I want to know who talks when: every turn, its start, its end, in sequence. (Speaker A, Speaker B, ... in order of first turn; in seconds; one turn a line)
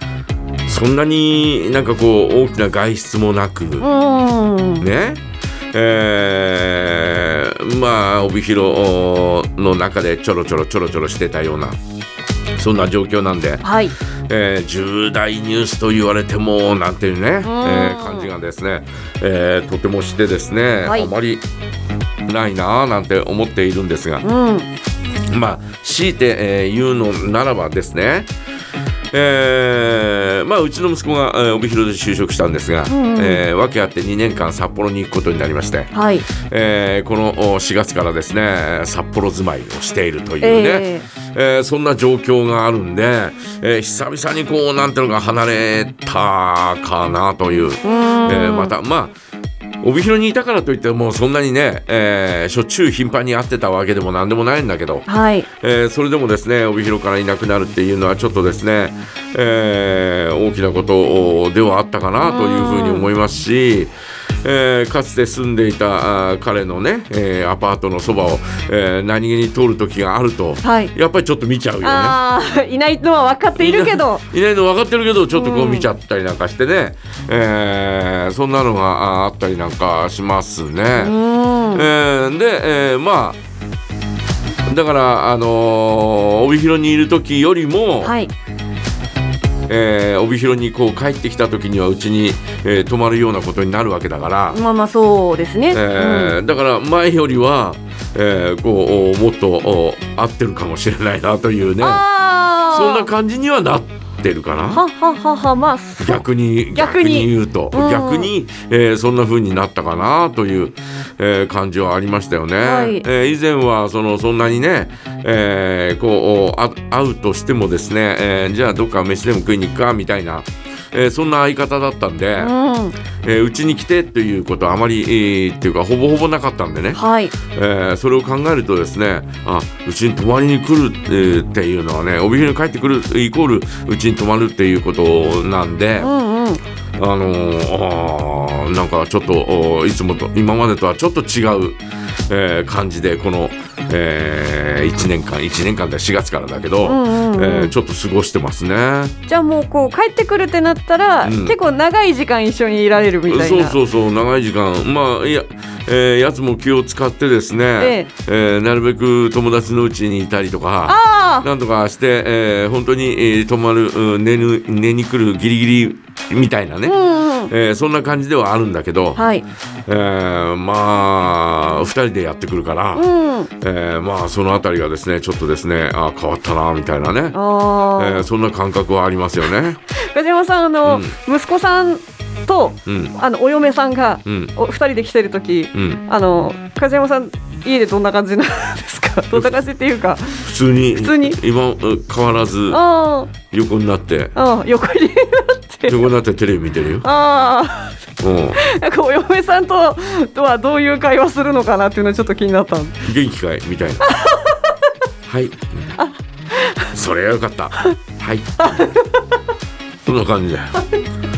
Speaker A: 0.7-3.9
Speaker B: 3.8-4.9
Speaker A: 4.8-5.2
Speaker A: 5.7-11.8
Speaker A: 12.6-13.6
Speaker B: 13.6-13.9
Speaker A: 14.3-21.4
Speaker B: 17.4-18.3
Speaker B: 20.8-21.1
Speaker A: 22.2-24.2
Speaker B: 24.2-24.7
Speaker A: 25.3-28.3
Speaker A: 29.1-49.1
Speaker B: 32.9-33.4
Speaker B: 35.9-36.2
Speaker B: 40.4-41.0
Speaker B: 47.8-48.7
Speaker A: 49.8-55.0
Speaker B: 55.1-55.5
Speaker A: 55.6-63.9
Speaker B: 62.2-63.1
Speaker A: 64.4-72.2
Speaker B: 70.6-70.9
Speaker B: 71.8-74.2
Speaker A: 73.6-81.1
Speaker B: 75.3-75.9
Speaker B: 80.9-81.9
Speaker A: 81.7-83.4
Speaker A: 84.7-88.1
Speaker B: 88.0-88.3
Speaker A: 89.7-94.6
Speaker B: 94.5-96.4
Speaker A: 95.7-102.0
Speaker B: 101.8-103.1
Speaker A: 102.7-104.8
Speaker B: 104.7-108.3
Speaker A: 106.0-122.5
Speaker B: 112.6-113.0
Speaker B: 122.4-123.0
Speaker A: 123.2-136.1
Speaker B: 126.9-127.3
Speaker B: 136.0-136.6
Speaker A: 137.0-149.2
Speaker B: 146.8-147.7
Speaker B: 149.3-153.8
Speaker A: 151.2-151.6
Speaker A: 153.3-166.9
Speaker B: 157.8-158.1
Speaker B: 160.9-161.5
Speaker B: 166.8-167.5
Speaker A: 167.5-169.2
Speaker B: 169.2-169.4
Speaker A: 169.9-173.1
Speaker B: 172.9-173.5
Speaker A: 173.6-177.4
Speaker B: 177.3-178.3
Speaker A: 178.0-179.8
Speaker B: 179.9-191.4
Speaker A: 180.8-181.2
Speaker A: 182.8-183.1
Speaker A: 184.2-184.5
Speaker A: 185.7-186.0
Speaker A: 190.4-192.8
Speaker B: 192.7-193.3
Speaker A: 193.4-194.3
Speaker B: 194.3-196.1
Speaker A: 195.9-197.1
Speaker B: 197.0-198.0
Speaker A: 198.2-198.6
Speaker B: 198.5-203.0
Speaker A: 203.0-204.1
Speaker B: 204.0-204.6
Speaker A: 205.2-205.9
Speaker B: 206.0-206.9
Speaker A: 206.9-208.8
Speaker B: 208.6-209.2
Speaker A: 210.1-210.8